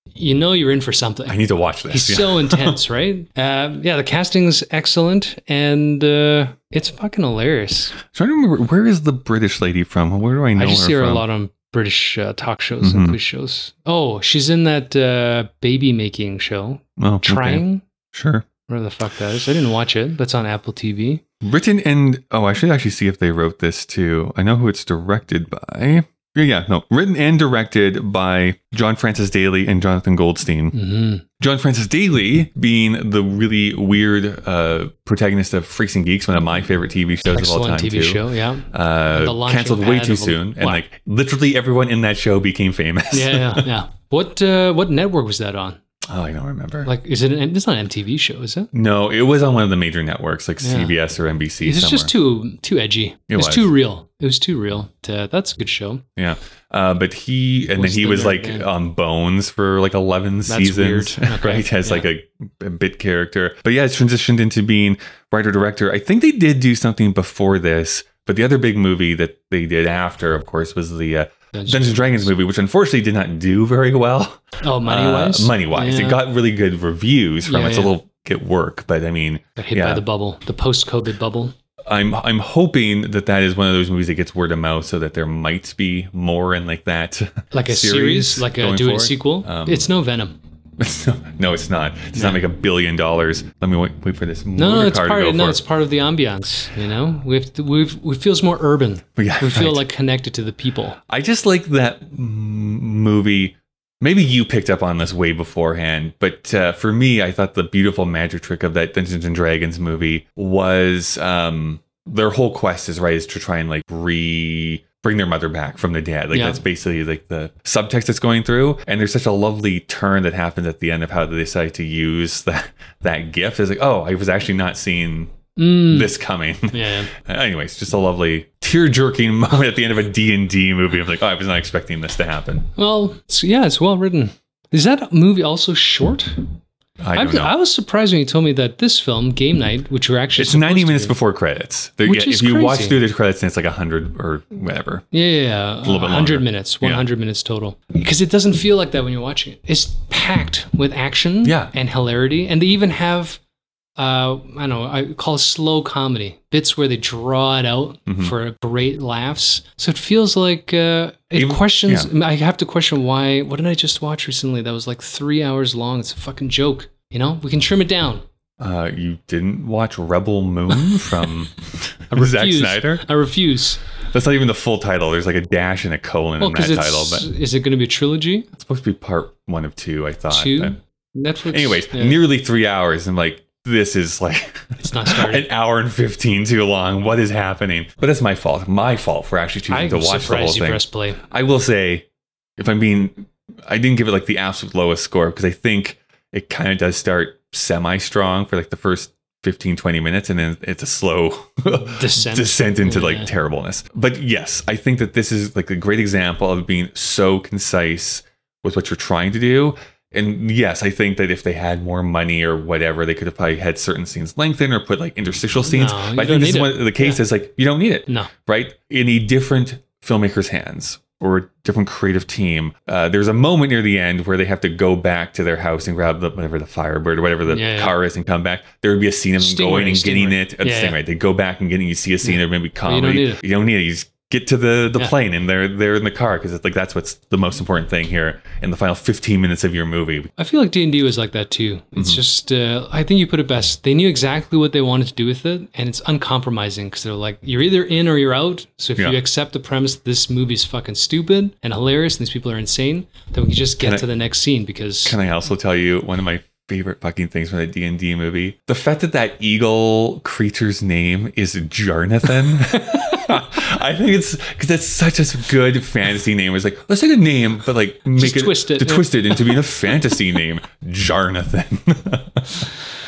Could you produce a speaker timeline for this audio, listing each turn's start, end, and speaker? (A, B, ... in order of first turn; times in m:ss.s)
0:00.2-0:08.0 A
0:01.3-0:02.8 B
0:08.1-0:11.2 B
0:10.6-0:17.8 A
0:12.8-0:13.2 B
0:17.0-0:18.5 B
0:18.7-0:21.2 A
0:21.4-0:30.8 B
0:30.7-0:31.2 A
0:31.4-0:43.7 B
0:37.3-0:40.8 A
0:43.1-0:45.8 A
0:46.0-0:46.9 B
0:46.8-0:48.7 A
0:48.7-0:52.1 B
0:50.6-0:50.9 A
0:51.6-0:56.0 A
0:53.3-0:53.7 B
0:56.2-1:20.0 B
0:57.8-0:58.7 A
1:00.5-1:02.1 A
1:11.5-1:12.3 A
1:14.6-1:16.2 A
1:17.5-1:17.9 A
1:19.6-1:21.5 A
1:21.9-1:29.9 B
1:27.5-1:30.4 A
1:30.8-1:35.6 B
1:32.1-1:32.4 A
1:34.6-1:41.0 A
1:39.2-1:39.9 B
1:41.1-2:05.3 B
1:56.3-1:56.6 A
2:05.6-2:06.1 A
2:05.9-2:12.7 B
2:06.7-2:07.1 A
2:12.8-2:16.5 A
2:17.0-2:17.6 B
2:17.2-2:21.2 A
2:20.4-2:25.1 B
2:22.0-2:23.0 A
2:25.1-2:33.4 A
2:25.8-2:27.0 B
2:31.4-2:31.7 B
2:34.0-2:48.2 A
2:38.1-2:38.3 B
2:41.4-2:42.1 B
2:48.6-2:53.1 B
2:52.1-2:53.8 A
2:54.1-2:57.3 B
2:56.4-2:58.5 A
2:58.6-3:00.8 B
3:00.3-3:02.2 A
3:01.5-3:12.1 B
3:04.8-3:05.5 A
3:09.7-3:11.2 A
3:12.6-4:00.3 B
3:21.7-3:23.3 A
3:35.7-3:37.2 A
3:47.5-3:48.0 A
3:49.4-3:51.0 A
3:52.2-3:53.4 A
4:00.4-4:15.2 A
4:02.0-4:02.2 B
4:13.8-4:14.1 B
4:15.0-4:32.7 B
4:28.2-4:29.6 A